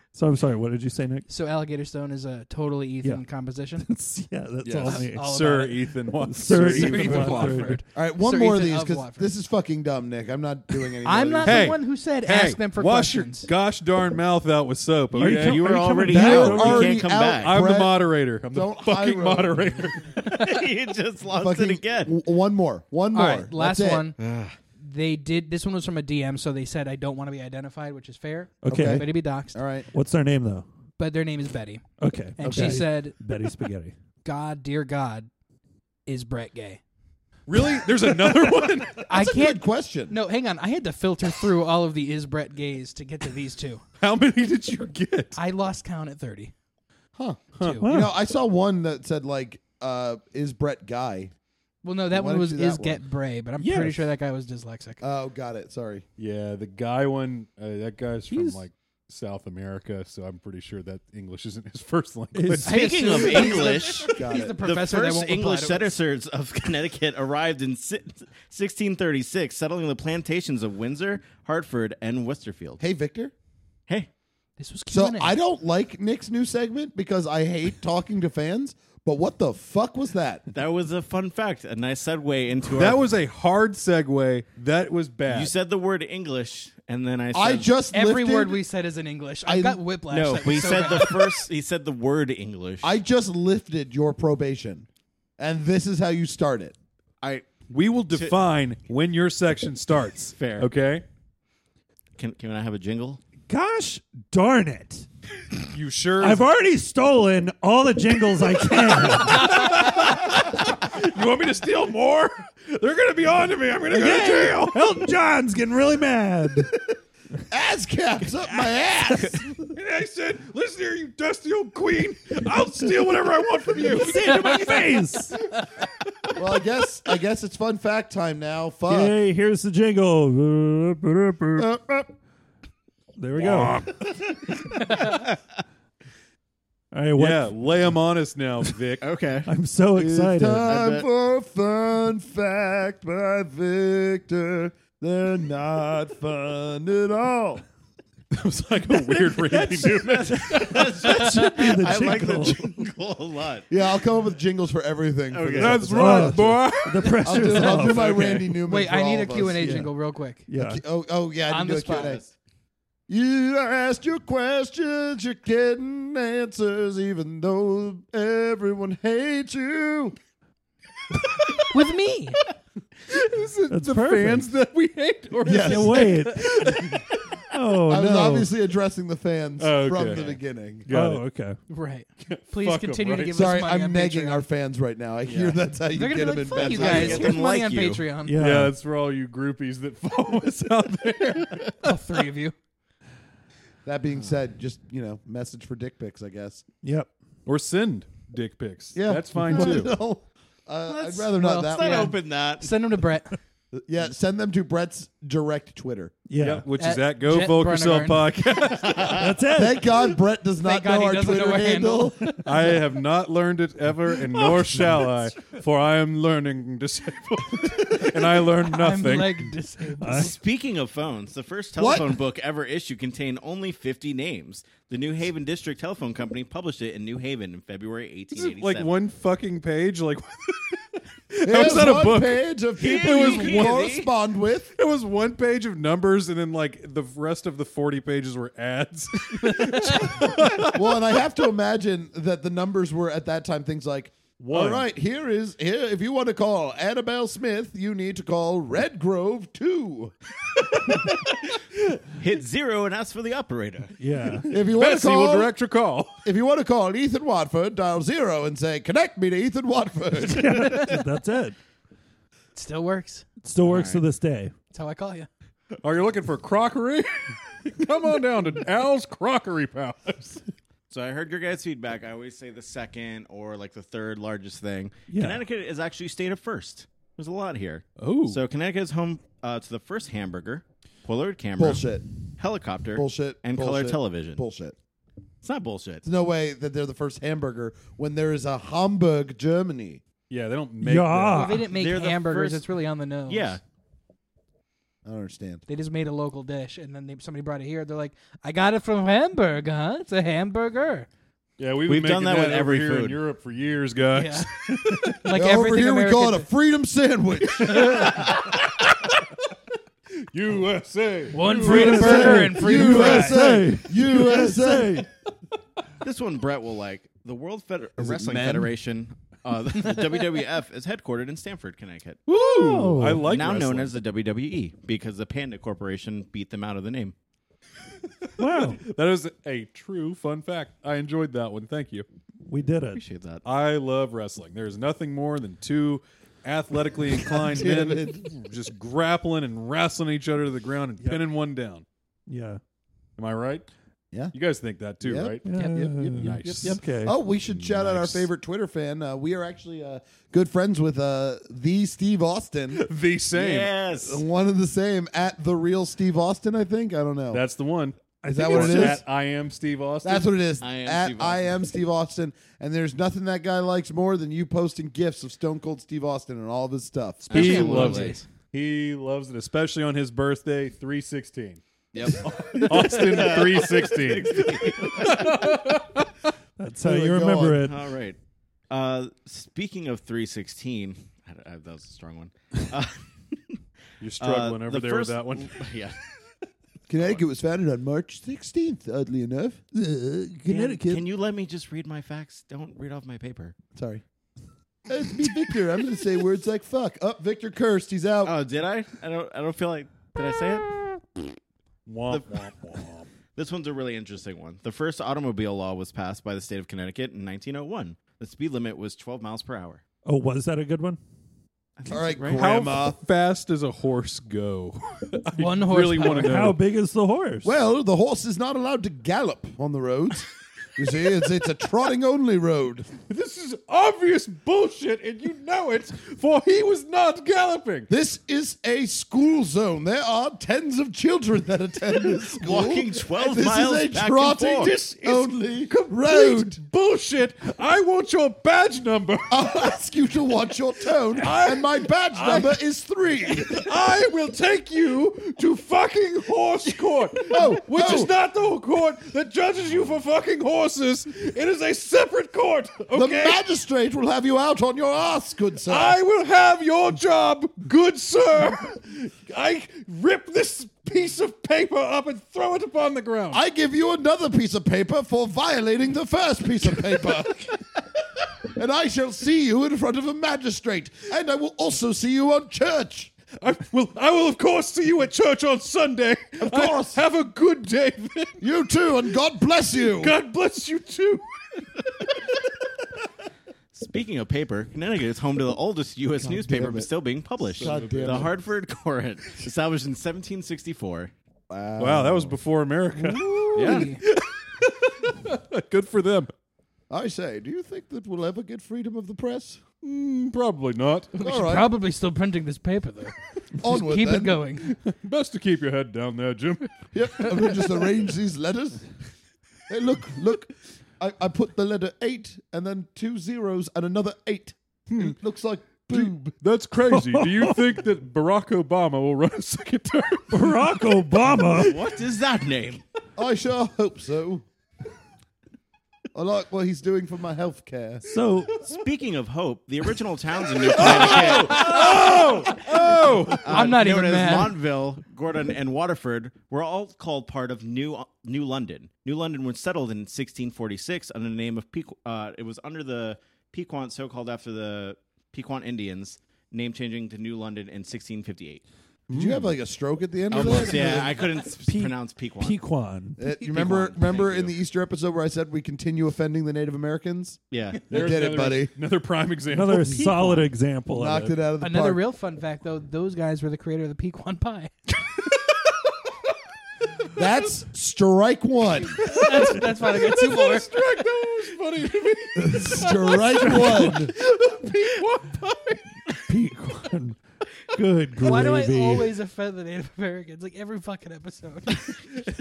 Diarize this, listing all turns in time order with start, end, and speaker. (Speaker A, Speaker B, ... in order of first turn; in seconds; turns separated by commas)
Speaker A: 0.1-1.3, Speaker B: 1.3-3.9, Speaker A: 3.8-5.4, Speaker C: 4.7-7.7, Speaker B: 4.9-9.3, Speaker A: 6.3-7.8, Speaker D: 7.9-11.8, Speaker B: 11.0-13.5, Speaker C: 11.4-20.2, Speaker A: 15.1-17.0, Speaker E: 15.2-17.5, Speaker D: 16.1-19.6, Speaker E: 20.3-22.1, Speaker D: 21.3-24.1, Speaker B: 23.1-24.2, Speaker E: 24.2-24.6, Speaker B: 24.8-29.6, Speaker A: 28.6-29.1, Speaker D: 28.7-29.9, Speaker A: 29.9-30.7, Speaker B: 31.0-31.8, Speaker A: 32.0-33.9, Speaker B: 32.4-33.2, Speaker D: 32.4-32.8, Speaker B: 34.2-35.3, Speaker B: 36.1-36.8, Speaker C: 37.5-39.1, Speaker B: 39.0-43.8, Speaker D: 39.1-40.2, Speaker C: 44.0-45.4, Speaker B: 45.3-46.5, Speaker D: 47.1-51.3, Speaker B: 47.6-47.9, Speaker A: 47.8-48.1, Speaker B: 51.8-55.0, Speaker D: 52.1-53.0, Speaker A: 53.6-54.1, Speaker D: 55.0-56.0, Speaker C: 56.2-62.7, Speaker A: 58.3-58.6, Speaker A: 62.3-63.2, Speaker B: 62.6-66.0, Speaker E: 62.7-72.8, Speaker C: 63.3-63.6, Speaker D: 64.1-64.6, Speaker D: 72.8-73.3, Speaker B: 74.6-75.4, Speaker D: 74.9-80.4, Speaker E: 80.5-83.1, Speaker C: 82.7-85.5, Speaker E: 85.3-87.7, Speaker D: 87.3-88.6, Speaker B: 87.9-91.5, Speaker D: 89.5-89.8, Speaker E: 90.1-93.0, Speaker D: 92.8-94.9, Speaker D: 95.4-96.8, Speaker E: 97.2-97.5, Speaker C: 97.7-101.0, Speaker E: 98.1-98.4, Speaker E: 100.3-100.7, Speaker E: 102.2-103.2, Speaker A: 103.5-105.1, Speaker C: 105.7-106.5, Speaker A: 106.2-109.8, Speaker C: 108.7-114.8, Speaker A: 113.9-116.7, Speaker D: 117.5-119.5, Speaker A: 118.7-119.4, Speaker C: 119.7-125.0, Speaker A: 123.8-125.5, Speaker D: 126.3-129.2, Speaker A: 128.9-131.7, Speaker D: 131.6-132.1, Speaker A: 133.2-135.3, Speaker E: 133.4-133.8, Speaker A: 136.9-137.6, Speaker C: 137.2-139.0, Speaker E: 139.0-139.5, Speaker A: 139.5-140.7, Speaker D: 139.9-147.6, Speaker E: 140.6-141.1, Speaker C: 148.3-151.5, Speaker A: 149.1-152.8, Speaker E: 150.1-153.7, Speaker D: 153.7-156.7, Speaker E: 155.3-155.8, Speaker C: 155.5-158.5, Speaker A: 155.7-158.2, Speaker D: 157.2-159.8, Speaker B: 158.7-160.5, Speaker A: 159.6-159.9, Speaker A: 160.5-160.8, Speaker D: 160.5-162.2, Speaker B: 161.5-162.2, Speaker E: 161.9-162.3, Speaker D: 163.1-170.2, Speaker B: 171.7-172.4, Speaker C: 173.1-177.1, Speaker A: 173.7-174.5, Speaker D: 175.4-176.2, Speaker A: 175.6-176.9, Speaker A: 177.5-178.5, Speaker D: 177.9-180.9, Speaker C: 179.6-180.3, Speaker E: 180.1-180.4, Speaker C: 180.9-181.3, Speaker A: 180.9-181.6, Speaker B: 181.7-184.5, Speaker C: 182.3-183.6, Speaker D: 183.3-187.3, Speaker B: 185.9-188.4, Speaker E: 186.6-188.1, Speaker A: 188.3-188.8, Speaker C: 188.3-192.0, Speaker B: 191.8-192.5, Speaker D: 193.8-196.7, Speaker A: 196.8-197.1, Speaker C: 197.5-199.9, Speaker D: 198.9-202.2, Speaker A: 199.4-199.8, Speaker E: 200.9-202.7, Speaker B: 201.4-203.4, Speaker D: 203.7-206.2, Speaker A: 206.3-206.7, Speaker C: 206.4-209.3, Speaker B: 206.8-208.3, Speaker E: 208.6-209.3, Speaker A: 209.1-209.9, Speaker D: 209.5-212.4, Speaker B: 210.6-212.3, Speaker C: 212.4-219.5, Speaker A: 214.3-215.2, Speaker B: 218.5-220.4, Speaker A: 220.0-220.4, Speaker E: 220.1-228.9, Speaker D: 221.8-222.2, Speaker C: 228.3-234.0, Speaker D: 231.4-234.7, Speaker E: 232.8-234.1, Speaker C: 234.7-240.9, Speaker B: 239.4-240.1, Speaker D: 240.7-250.1, Speaker C: 244.4-244.9, Speaker E: 252.2-254.0, Speaker A: 254.0-254.5, Speaker C: 254.3-256.2, Speaker D: 254.5-255.5, Speaker D: 256.2-260.9, Speaker A: 260.2-261.6, Speaker B: 262.6-263.3, Speaker A: 263.4-264.5, Speaker E: 263.6-264.0, Speaker B: 264.7-265.3, Speaker C: 265.8-270.4, Speaker E: 270.9-281.9, Speaker A: 275.1-275.4, Speaker C: 278.0-278.4, Speaker D: 281.6-282.1, Speaker E: 282.4-284.4, Speaker D: 282.9-284.8, Speaker E: 285.4-286.1, Speaker D: 286.0-290.0, Speaker C: 290.3-291.5, Speaker A: 290.8-291.7, Speaker B: 291.3-293.6, Speaker E: 291.7-292.6, Speaker E: 293.3-293.6, Speaker D: 295.1-295.6, Speaker B: 295.7-301.1, Speaker C: 301.6-305.3, Speaker E: 301.9-303.2, Speaker B: 304.1-304.5, Speaker A: 304.9-305.1, Speaker B: 305.2-306.5, Speaker D: 305.3-308.1, Speaker C: 307.6-308.4, Speaker C: 310.3-312.4, Speaker B: 311.3-313.4, Speaker A: 311.4-315.1, Speaker D: 312.2-315.1, Speaker E: 316.0-322.2, Speaker D: 318.0-318.7, Speaker B: 319.8-320.4, Speaker C: 322.3-323.9, Speaker A: 322.4-323.3, Speaker E: 323.2-327.1, Speaker C: 328.2-332.1, Speaker A: 328.4-328.8, Speaker A: 332.5-333.0, Speaker E: 332.9-333.4, Speaker C: 333.4-341.9, Speaker D: 337.2-338.3, Speaker A: 342.3-342.6, Speaker C: 343.2-343.7, Speaker C: 344.3-345.5, Speaker D: 345.0-352.9, Speaker A: 345.4-347.2, Speaker B: 345.5-345.9, Speaker C: 346.1-348.3, Speaker C: 352.7-353.7, Speaker E: 353.3-354.2, Speaker D: 354.0-357.4, Speaker C: 357.3-360.3, Speaker A: 358.2-359.0, Speaker D: 358.3-359.0, Speaker D: 360.0-368.0, Speaker E: 360.6-361.4, Speaker B: 367.3-368.2, Speaker E: 367.3-368.2, Speaker C: 367.3-376.3, Speaker E: 372.0-375.6, Speaker A: 376.6-377.8, Speaker D: 376.8-377.7, Speaker E: 377.6-378.2, Speaker E: 378.7-383.6, Speaker C: 384.0-385.6, Speaker E: 384.2-386.0, Speaker D: 386.9-389.6, Speaker A: 389.7-391.0, Speaker E: 390.5-393.6, Speaker D: 393.8-394.0, Speaker D: 394.9-398.4, Speaker E: 398.2-400.8, Speaker C: 401.9-403.1, Speaker E: 403.4-409.8, Speaker A: 410.1-411.0, Speaker E: 411.8-412.5, Speaker D: 411.9-413.0, Speaker C: 412.3-416.6, Speaker B: 415.4-416.5, Speaker A: 416.0-417.5, Speaker D: 417.4-422.9, Speaker C: 423.0-427.9, Speaker D: 427.9-436.6, Speaker E: 432.3-434.8, Speaker C: 434.6-435.4, Speaker C: 436.0-439.6, Speaker D: 439.3-443.7, Speaker C: 441.2-442.6, Speaker C: 443.3-453.4, Speaker D: 447.2-448.1, Speaker D: 452.9-456.0, Speaker C: 455.7-463.4, Speaker D: 463.3-467.5, Speaker D: 468.5-473.1, Speaker C: 473.4-478.4, Speaker D: 476.4-477.0, Speaker D: 478.4-480.1, Speaker C: 479.9-482.1, Speaker E: 483.7-491.1, Speaker D: 486.2-486.9, Speaker C: 487.6-488.3, Speaker D: 487.6-488.3, Speaker D: 491.5-492.4, Speaker C: 491.8-496.3, Speaker D: 493.0-493.8, Speaker B: 493.5-494.0, Speaker E: 493.6-493.9, Speaker D: 496.9-499.6, Speaker C: 499.8-501.2, Speaker B: 501.2-504.8, Speaker D: 501.2-501.7, Speaker D: 503.6-504.4, Speaker C: 504.7-507.9, Speaker D: 506.9-508.9, Speaker D: 509.7-516.4, Speaker C: 514.9-515.2, Speaker C: 515.9-522.0, Speaker A: 516.9-517.7, Speaker A: 520.3-521.8, Speaker E: 521.5-522.8, Speaker D: 523.2-524.5, Speaker D: 526.1-528.1, Speaker A: 528.0-528.6, Speaker E: 528.6-532.6, Speaker C: 530.6-533.6, Speaker E: 533.3-548.6, Speaker B: 533.5-534.6, Speaker D: 549.1-551.2, Speaker C: 549.1-549.5, Speaker E: 550.3-552.6, Speaker C: 550.5-551.0, Speaker A: 551.6-553.2, Speaker D: 553.2-557.4, Speaker E: 553.3-554.5, Speaker E: 557.5-557.9, Speaker D: 557.9-558.7, Speaker C: 557.9-560.5, Speaker A: 559.5-561.4, Speaker D: 560.9-562.0, Speaker B: 561.6-564.7, Speaker D: 567.2-569.0, Speaker C: 569.0-576.2, Speaker B: 569.0-570.8, Speaker D: 572.4-574.1, Speaker A: 573.4-574.0, Speaker A: 576.3-577.2, Speaker A: 577.7-579.1, Speaker B: 578.2-582.0